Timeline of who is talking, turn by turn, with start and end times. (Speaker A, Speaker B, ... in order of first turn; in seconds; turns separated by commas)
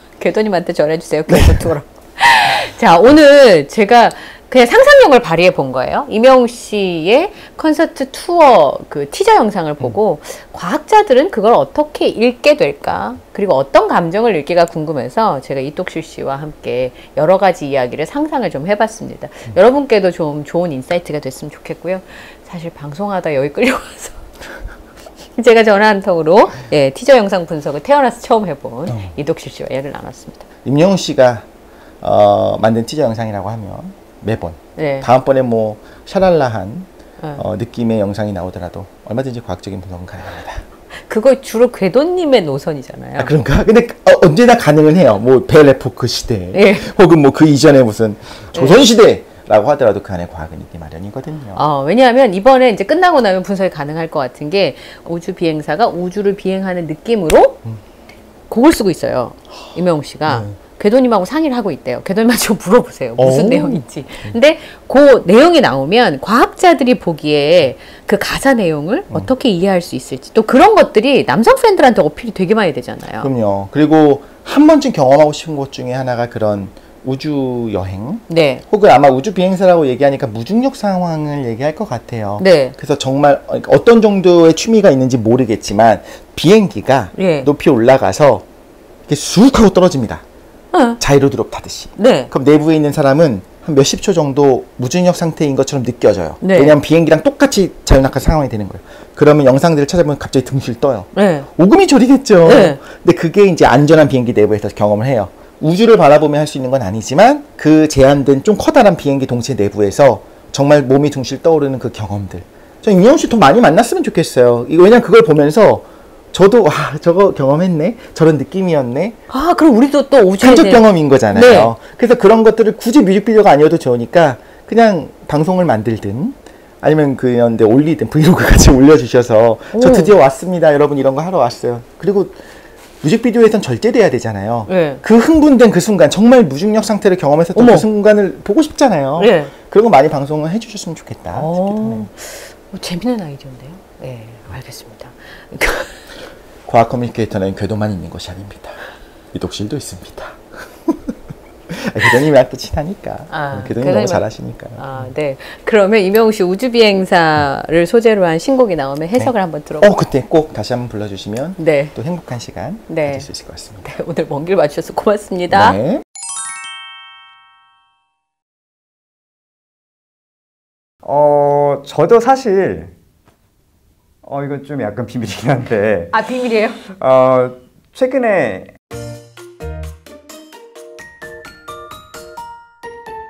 Speaker A: 0.2-24.2, Speaker B: 1.3-1.7, Speaker A: 25.3-30.5, Speaker B: 28.9-29.1, Speaker B: 30.6-31.5, Speaker B: 32.0-40.6, Speaker A: 34.8-35.1, Speaker A: 41.0-43.3, Speaker B: 43.1-51.6, Speaker A: 46.5-46.9, Speaker A: 48.5-48.8, Speaker A: 51.5-57.6, Speaker A: 58.5-73.3, Speaker B: 60.3-60.6, Speaker B: 63.2-64.3, Speaker B: 73.2-88.5, Speaker A: 78.3-78.6, Speaker A: 82.4-82.7, Speaker A: 87.1-87.5, Speaker B: 89.1-90.2, Speaker A: 90.7-91.0, Speaker B: 91.0-119.2, Speaker A: 92.0-92.3, Speaker A: 96.4-96.8, Speaker A: 101.1-101.5, Speaker A: 102.4-102.8, Speaker A: 119.3-121.7, Speaker B: 120.4-132.4, Speaker A: 129.7-130.1, Speaker B: 133.0-142.1, Speaker A: 134.7-135.0, Speaker A: 137.5-137.8, Speaker A: 139.2-139.5, Speaker A: 141.3-146.0, Speaker B: 146.7-148.8, Speaker B: 149.3-151.0, Speaker B: 151.7-154.9, Speaker A: 153.3-160.0, Speaker B: 159.2-163.8, Speaker A: 161.6-161.9, Speaker A: 162.9-163.3, Speaker A: 163.8-165.8, Speaker B: 165.5-166.0, Speaker C: 171.0-172.9, Speaker C: 174.2-176.3, Speaker A: 176.1-176.9, Speaker C: 176.9-178.7